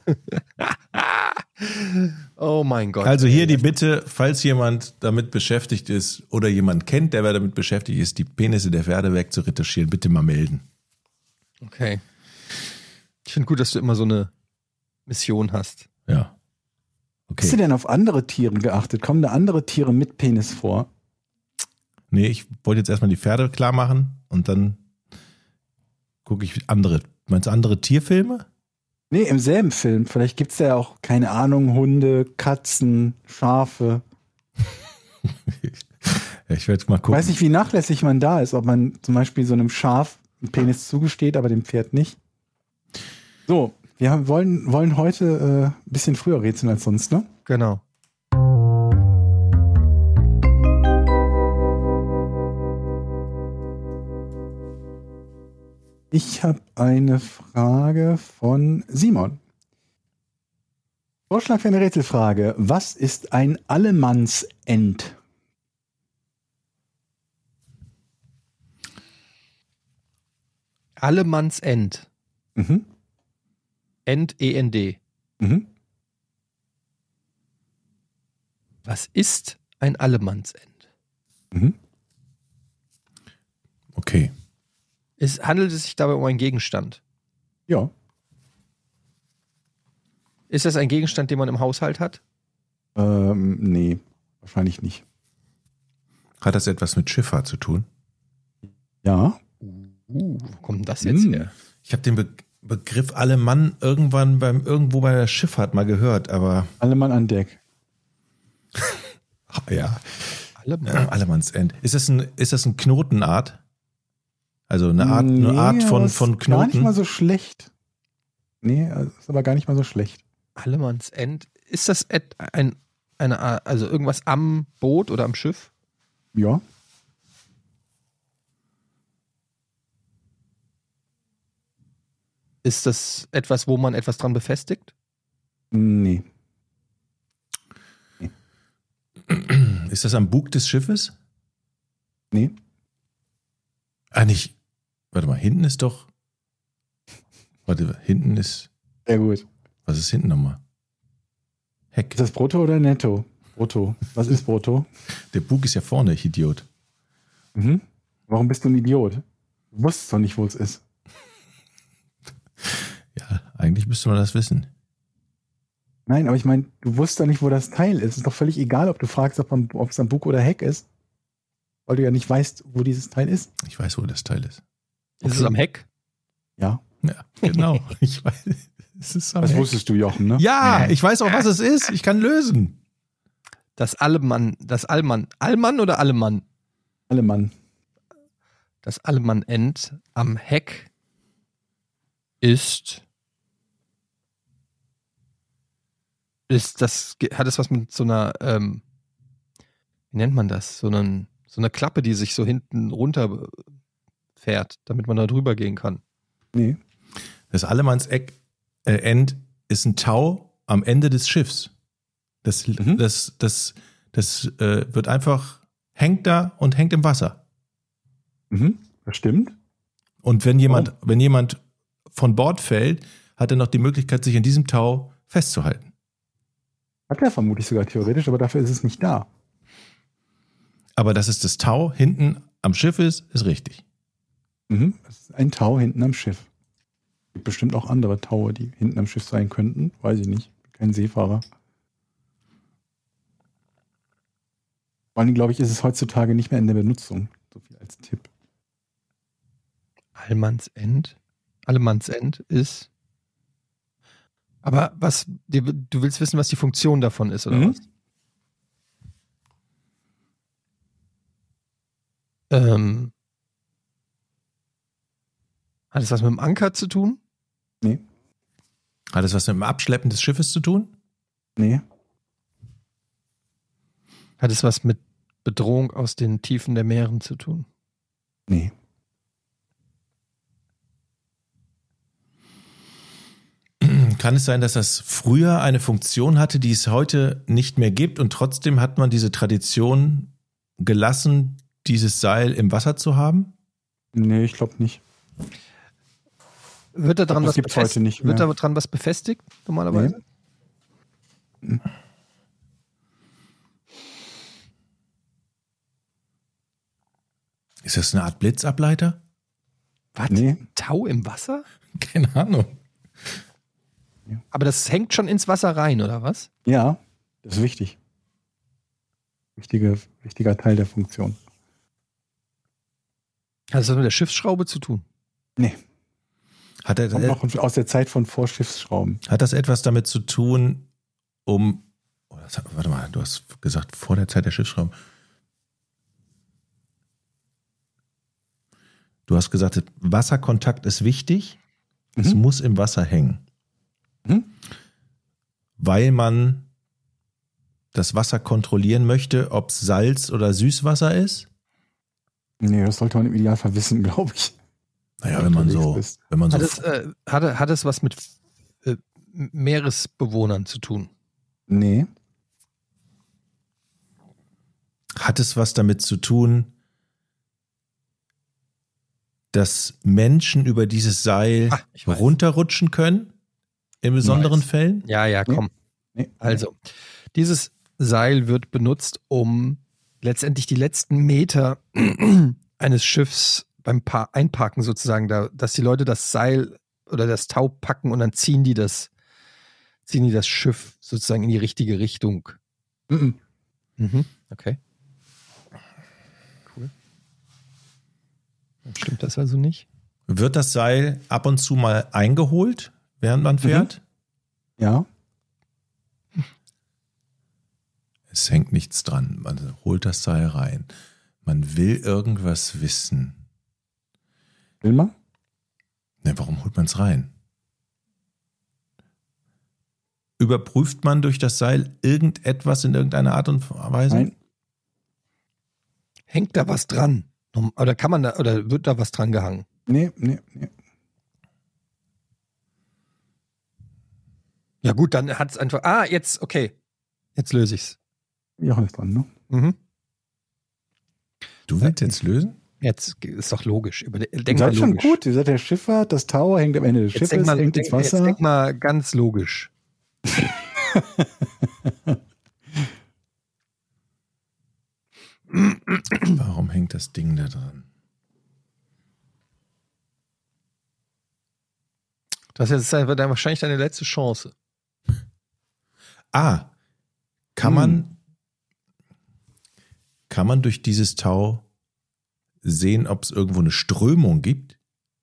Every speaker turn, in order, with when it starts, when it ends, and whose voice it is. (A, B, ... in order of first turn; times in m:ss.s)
0:00.3-0:03.6 A
0:03.0-0:10.6 B
0:11.6-0:12.0 A
0:13.2-0:14.3 A
0:15.1-0:15.9 A
0:16.1-0:16.3 B
0:17.3-0:17.6 B
0:17.4-0:20.9 C
0:22.1-0:24.8 B
0:26.2-0:28.4 B
0:29.1-0:34.0 C
0:35.5-0:37.3 B
0:37.1-0:42.2 C
0:43.5-0:47.3 C
0:47.5-0:47.8 A
0:56.1-0:59.4 C
1:01.3-1:05.2 C
1:11.0-1:12.1 A
1:12.6-1:12.8 C
1:14.0-1:15.0 A
1:15.4-1:15.6 C
1:18.8-1:20.8 A
1:23.9-1:24.3 B
1:25.2-1:27.0 A
1:30.5-1:32.2 A
1:33.0-1:35.0 C
1:36.4-1:37.8 B
1:39.0-1:39.4 C
1:39.6-1:41.5 A
1:41.0-1:41.5 C
1:41.8-1:46.7 B
1:46.8-1:47.6 C
1:49.5-1:53.6 B
1:50.6-1:51.1 A
1:54.7-1:56.9 B
1:55.0-1:57.7 C
1:58.6-2:00.2 C
2:00.6-2:05.7 A
2:06.3-2:06.6 C
2:12.6-2:14.9 A
2:15.7-2:16.2 C
2:19.3-2:21.1 B
2:24.1-2:24.5 B
2:25.1-2:26.1 B
2:27.7-2:28.7 B
2:29.1-2:29.4 C
2:29.9-2:30.6 B
2:32.1-2:34.9 C
2:35.3-2:36.6 B
2:37.5-2:40.8 C
2:42.6-2:44.7 B
2:46.1-2:50.8 C
2:51.9-2:53.5 C
2:53.6-2:54.6 B
2:55.2-2:55.8 A
2:55.2-2:55.5 B
2:57.0-2:59.7 B
2:57.4-2:57.7 A
2:59.4-3:00.8 C
3:00.3-3:02.8 B
3:03.8-3:06.4 A
3:07.1-3:07.5 C
3:08.8-3:10.9 A
3:12.4-3:13.0 A
3:16.5-3:18.8 A
3:20.1-3:23.6 A
3:24.4-3:26.0 A
3:26.5-3:26.8 C
3:27.5-3:31.7 B
3:32.4-3:37.4 B
3:38.5-3:39.5 C
3:40.2-3:41.6 B
3:42.1-3:45.9 B
3:47.1-3:49.2 C
3:51.0-3:53.8 B
3:54.7-3:56.4 C
3:57.3-4:01.4 C
4:05.2-4:08.3 C
4:10.2-4:11.1 A
4:11.6-4:12.9 A
4:14.6-4:17.8 A
4:17.5-4:17.8 C
4:22.5-4:23.1 A
4:25.9-4:27.2 A
4:29.1-4:30.9 B
4:31.6-4:31.8 C
4:34.4-4:37.7 A
4:43.8-4:53.5 B
4:54.1-4:55.0 C
4:56.9-5:00.2 A
4:57.3-4:58.4 C
4:59.9-5:00.2 C
5:07.8-5:09.2 B
5:10.1-5:11.6 A
5:10.3-5:10.6 C
5:11.9-5:12.7 B
5:14.5-5:16.5 A
5:16.6-5:18.0 C
5:19.6-5:21.4 C
5:23.7-5:25.0 A
5:26.8-5:27.4 B
5:27.1-5:29.2 C
5:29.3-5:30.8 B
5:31.4-5:34.9 B
5:39.3-5:41.6 B
5:42.2-5:43.4 B
5:45.8-5:46.6 B
5:47.9-5:51.5 B
5:52.6-5:54.5 C
5:55.2-5:56.8 B
5:55.3-5:56.2 C
5:56.5-5:58.3 A
5:58.8-6:01.1 A
6:01.7-6:02.1 C
6:05.2-6:06.7 B
6:09.5-6:13.3 B
6:11.7-6:12.2 A
6:14.0-6:15.0 B
6:14.2-6:14.6 C
6:15.0-6:15.7 A
6:16.2-6:16.6 C
6:16.4-6:16.8 A
6:17.3-6:29.1 A
6:30.0-6:32.6 A
6:33.1-6:33.4 C
6:34.0-6:34.8 A
6:38.8-6:39.8 A
6:40.3-6:44.0 B
6:43.6-6:43.9 C
6:44.8-6:45.0 C
6:48.3-6:50.9 B
6:51.4-6:53.4 B
6:54.8-6:55.1 C
6:56.2-6:57.3 B
7:00.4-7:04.3 B
7:06.3-7:09.6 A
7:09.9-7:10.7 C
7:14.8-7:16.7 A
7:17.4-7:18.0 A
7:18.6-7:19.3 C
7:19.5-7:19.8 A
7:21.7-7:22.6 B
7:22.8-7:25.2 A
7:24.5-7:28.4 C
7:27.1-7:29.7 A
7:30.3-7:32.1 C
7:36.2-7:37.8 B
7:42.6-7:44.5 A
7:46.3-7:46.7 B
7:47.5-7:48.1 B
7:47.6-7:48.0 C
7:50.3-7:51.6 B
7:52.6-7:54.8 B